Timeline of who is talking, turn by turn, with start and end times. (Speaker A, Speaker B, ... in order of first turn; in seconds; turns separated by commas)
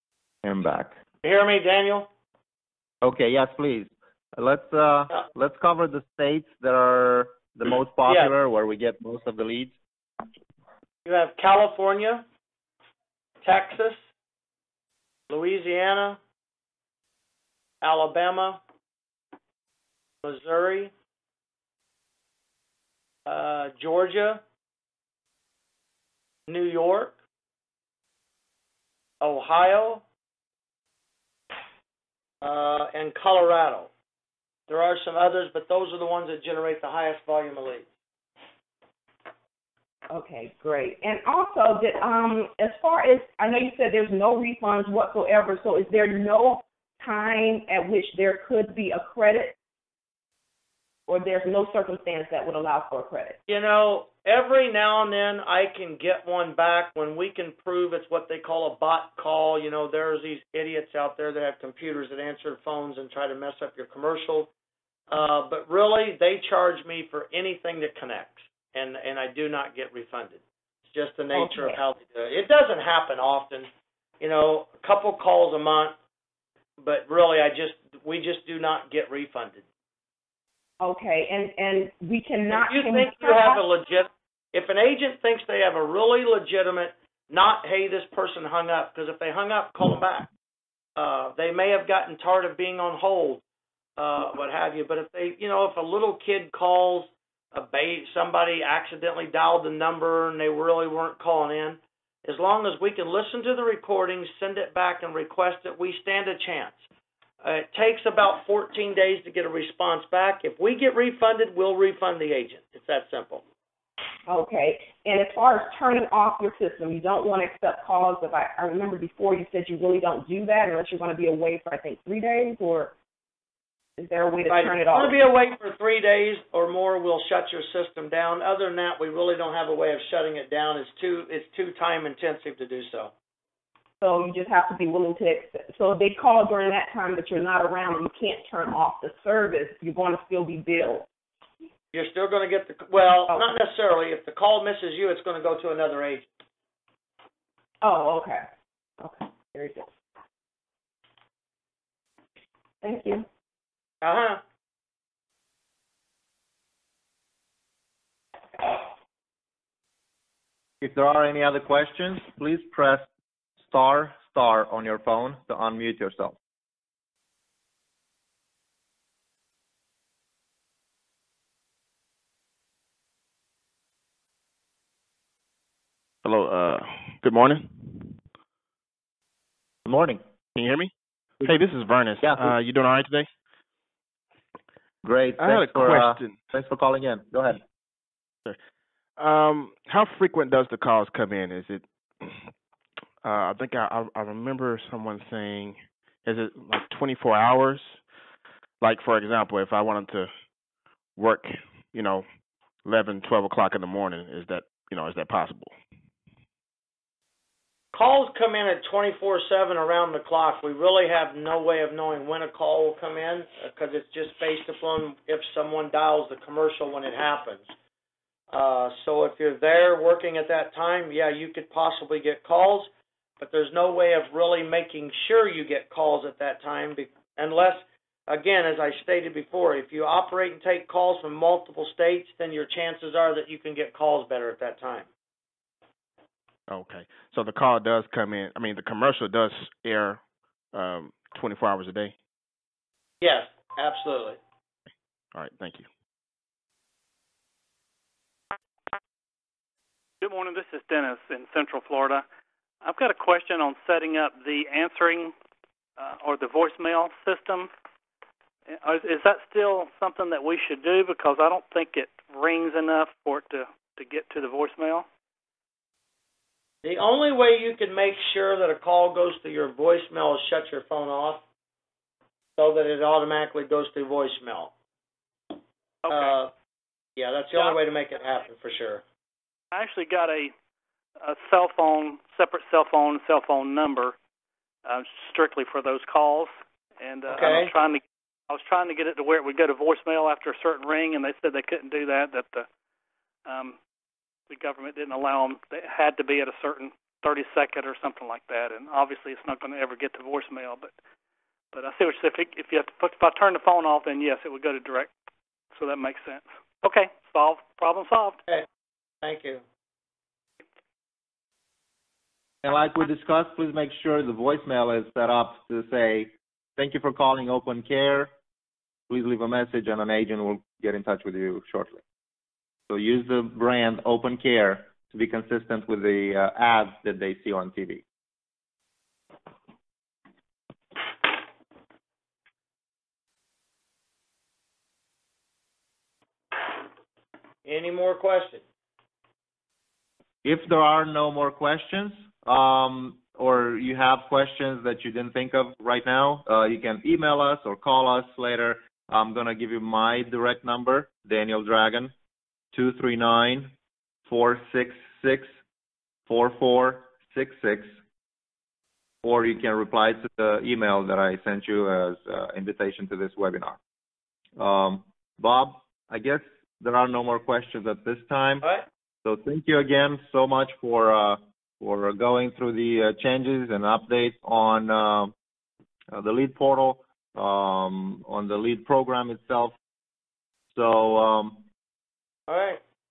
Speaker A: 0.4-1.0, Speaker B: 1.2-2.1, Speaker A: 3.0-9.8, Speaker B: 8.1-8.3, Speaker B: 11.0-12.2, Speaker B: 13.4-14.0, Speaker B: 15.3-16.2, Speaker B: 17.8-18.6, Speaker B: 20.2-20.9, Speaker B: 23.2-24.4, Speaker B: 26.5-27.1, Speaker B: 29.2-30.0, Speaker B: 32.4-33.9, Speaker B: 34.7-37.9, Speaker C: 40.1-49.6, Speaker C: 51.1-53.4, Speaker B: 53.5-64.5, Speaker B: 65.1-73.7, Speaker C: 71.3-71.8, Speaker B: 74.2-76.0, Speaker B: 76.8-79.6, Speaker C: 80.8-83.6, Speaker B: 82.5-90.3, Speaker B: 91.0-93.4, Speaker B: 94.0-106.9, Speaker B: 107.4-113.4, Speaker C: 114.3-123.0, Speaker C: 124.0-125.2, Speaker B: 124.5-133.1, Speaker C: 134.0-141.1, Speaker B: 141.9-146.3, Speaker C: 147.8-148.4, Speaker C: 149.0-149.9, Speaker C: 152.8-153.3, Speaker B: 154.0-154.4, Speaker A: 160.8-163.1, Speaker A: 163.6-166.4, Speaker D: 176.2-178.2, Speaker A: 179.8-180.2, Speaker D: 180.5-183.3, Speaker A: 182.2-182.5, Speaker A: 185.0-187.6, Speaker D: 185.4-186.3, Speaker D: 189.2-192.5, Speaker D: 193.2-198.0, Speaker D: 198.8-200.3, Speaker D: 201.2-202.2, Speaker D: 202.8-205.7, Speaker B: 207.9-217.7, Speaker B: 218.5-235.1, Speaker D: 236.7-240.2, Speaker D: 240.7-242.1, Speaker B: 243.2-244.4, Speaker D: 245.3-245.9, Speaker E: 250.2-252.2, Speaker E: 252.8-255.3, Speaker E: 256.0-257.7, Speaker E: 258.7-265.1, Speaker B: 266.8-271.4, Speaker B: 272.6-274.7, Speaker E: 276.0-276.3, Speaker B: 276.1-276.5, Speaker B: 277.1-279.0, Speaker E: 279.7-280.5, Speaker E: 281.2-284.2, Speaker E: 284.8-292.7, Speaker B: 287.3-287.7, Speaker E: 293.4-293.8, Speaker E: 294.5-300.9, Speaker E: 301.7-305.1, Speaker E: 305.7-308.4, Speaker B: 309.2-309.6, Speaker A: 312.6-318.3, Speaker A: 319.1-322.0, Speaker A: 322.9-328.0, Speaker B: 337.6-338.6, Speaker A: 340.4-352.1, Speaker A: 352.7-353.7, Speaker A: 354.3-355.5, Speaker A: 356.3-358.0, Speaker A: 359.2-363.8, Speaker A: 364.6-368.6, Speaker A: 369.2-375.3, Speaker A: 376.1-379.7, Speaker A: 380.7-381.6, Speaker B: 382.5-382.8